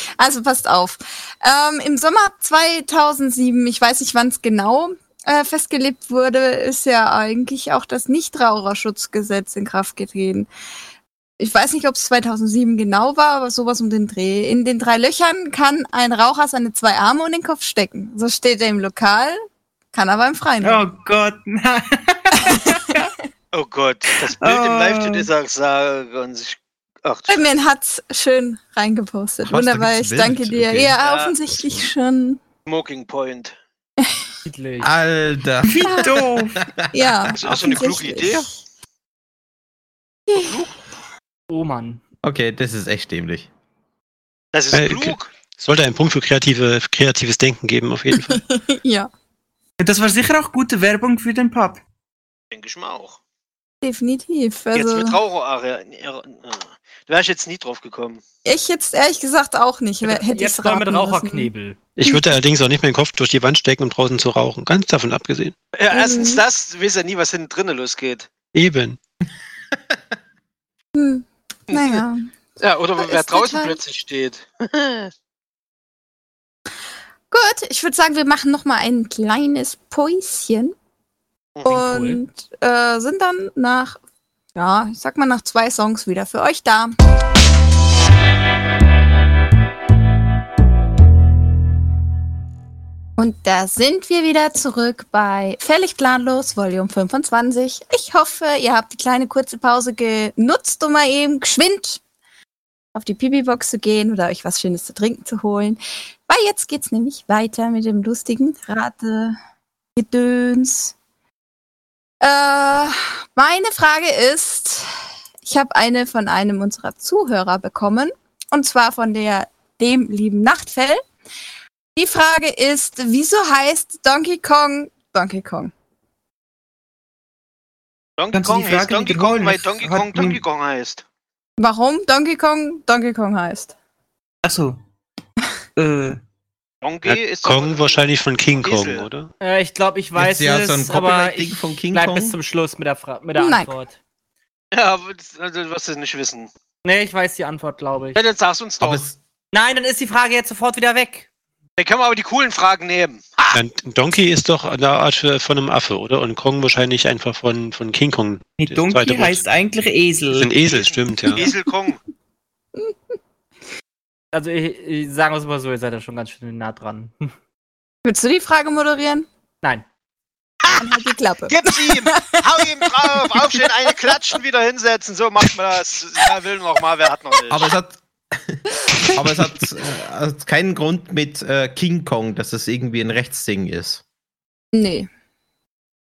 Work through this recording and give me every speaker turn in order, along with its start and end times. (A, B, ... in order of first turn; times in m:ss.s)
0:00.2-0:10.5 A
0:11.4-0:19.4 A
0:19.9-0:20.9 A
0:20.6-0:23.0 B
0:22.4-0:23.1 A
0:23.5-0:27.6 C
0:24.2-0:25.3 B
0:27.3-0:32.4 A
0:29.4-0:31.0 D
0:31.0-0:31.3 C
0:32.6-0:33.6 C
0:34.4-0:34.9 E
0:34.8-0:37.1 D
0:35.6-0:36.6 B
0:35.8-0:36.1 A
0:36.9-0:38.5 A
0:37.3-0:38.5 C
0:40.3-0:40.6 A
0:40.4-0:40.7 C
0:41.5-0:42.0 E
0:42.2-0:43.5 D
0:44.5-0:45.3 C
0:44.7-0:48.4 F
0:48.2-0:49.1 A
0:49.8-0:51.8 B
0:52.5-0:53.2 C
0:53.8-0:55.2 A
0:54.7-0:58.2 C
0:58.4-1:01.5 A
1:00.0-1:01.8 E
1:02.0-1:05.6 F
1:02.0-1:02.3 A
1:05.7-1:08.3 C
1:05.9-1:06.4 A
1:08.5-1:09.0 F
1:09.7-1:10.0 D
1:11.0-1:12.3 A
1:11.7-1:12.0 C
1:12.6-1:15.1 C
1:13.0-1:13.8 A
1:17.3-1:20.7 A
1:21.6-1:22.2 E
1:21.6-1:24.0 A
1:24.6-1:26.9 A
1:33.2-1:42.0 A
1:43.0-1:49.4 A
1:50.0-1:50.9 A
1:52.2-1:54.9 A
1:55.4-2:01.0 A
2:02.0-2:05.7 A
2:08.2-2:11.0 C
2:08.3-2:10.4 B
2:11.6-2:13.7 A
2:14.4-2:14.8 B
2:15.8-2:16.2 B
2:16.8-2:18.0 C
2:17.0-2:19.3 F
2:18.6-2:19.1 C
2:19.4-2:24.0 E
2:20.2-2:22.4 D
2:23.4-2:23.7 A
2:24.7-2:26.5 C
2:26.8-2:28.2 E
2:28.2-2:29.1 C
2:28.8-2:29.2 D
2:29.5-2:31.3 E
2:31.8-2:33.6 C
2:33.5-2:39.4 F
2:38.6-2:40.6 B
2:40.3-2:41.5 F
2:40.6-2:42.0 C
2:44.3-2:47.3 E
2:48.0-2:49.3 A
2:50.6-2:50.9 C
2:50.7-2:53.9 A
2:51.5-2:57.7 C
2:57.5-2:58.6 D
2:59.1-3:04.0 D
3:04.7-3:05.1 A